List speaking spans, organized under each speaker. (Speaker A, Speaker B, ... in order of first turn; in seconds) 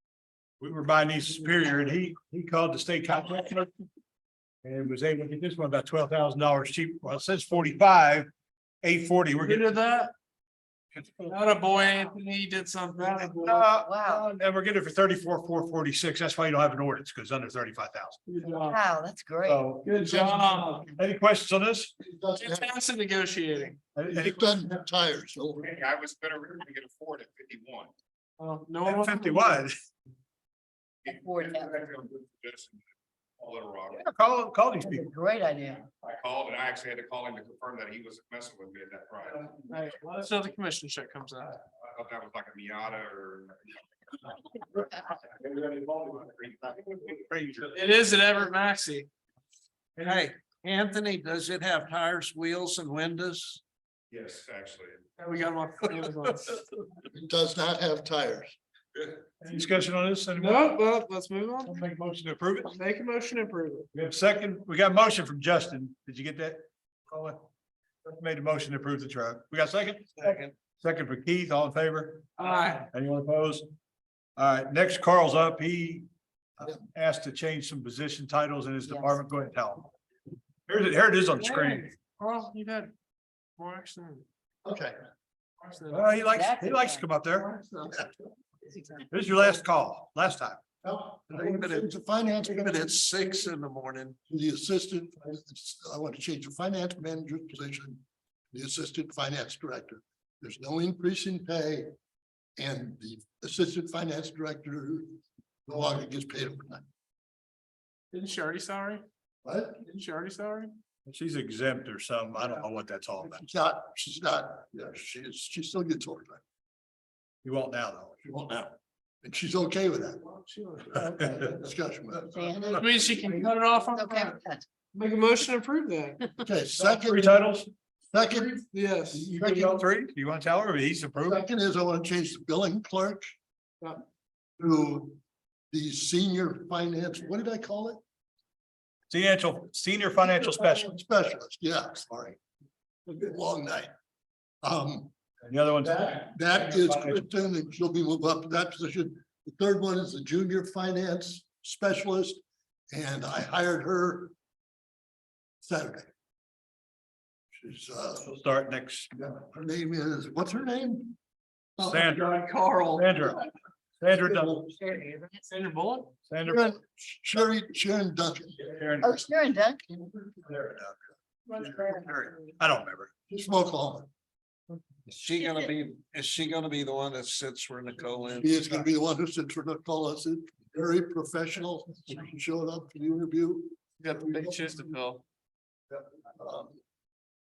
Speaker A: 0.6-3.7, 4.6-8.3, 8.8-9.7, 10.9-11.4, 13.2-18.2, 19.4-21.9, 23.9-24.6, 28.8-29.7, 33.9-35.1, 45.4-47.7, 59.4-60.7, 61.6-62.7, 63.9-67.4, 68.0-72.3, 72.9-73.7, 74.4-76.0, 76.6-79.9, 80.7-81.9, 85.9-87.5, 89.1-90.6, 111.0-113.4, 117.4-118.2, 126.8-127.7, 129.3-131.4, 139.1-141.0, 145.5-147.2, 158.2-159.1, 161.8-162.3, 162.9-163.4, 164.0-164.8, 166.3-166.7, 168.6-169.3, 170.3-171.0, 171.6-173.1
Speaker B: 9.4-10.1, 11.2-13.7, 18.3-18.8, 19.8-20.9, 22.3-23.8, 28.4-29.6, 39.7-41.6, 47.7-49.1, 55.2-56.6, 60.4-61.8, 62.7-63.9, 72.4-72.9, 81.4-82.9, 83.6-84.2, 85.6-86.2, 108.1-109.0, 109.8-110.8, 120.4-120.8, 122.7-124.4, 124.9-126.3, 128.6-129.3, 165.2-166.1, 184.3-185.2
Speaker C: 13.8-14.2, 18.5-19.6, 31.1-31.8, 34.8-35.9, 78.8-79.2, 86.3-87.0, 88.7-89.1, 122.2-122.9, 123.9-124.6, 164.8-165.3, 169.0-170.2, 171.5-172.3
Speaker D: 22.0-22.7, 24.1-25.7, 57.1-58.5, 84.6-85.0, 87.5-88.1, 90.8-93.0, 94.3-101.9, 102.6-106.8, 109.4-109.8, 113.2-116.4, 118.2-122.4, 126.4-127.5, 128.1-129.8, 131.2-133.3, 134.6-135.2, 135.7-138.0, 140.2-142.4, 143.1-143.9, 144.6-145.1, 146.1-154.3, 155.6-156.1, 157.5-158.3, 159.2-161.2, 161.8-162.2, 166.4-168.6, 173.3-174.1, 178.4-184.8, 185.9-186.8
Speaker E: 25.6-27.9, 31.0-32.8, 33.4-34.0, 35.9-39.5, 41.9-44.9, 45.9-46.5, 54.1-55.0
Speaker F: 50.0-53.6, 70.2-70.5, 91.3-94.2, 162.1-163.1, 175.1-178.7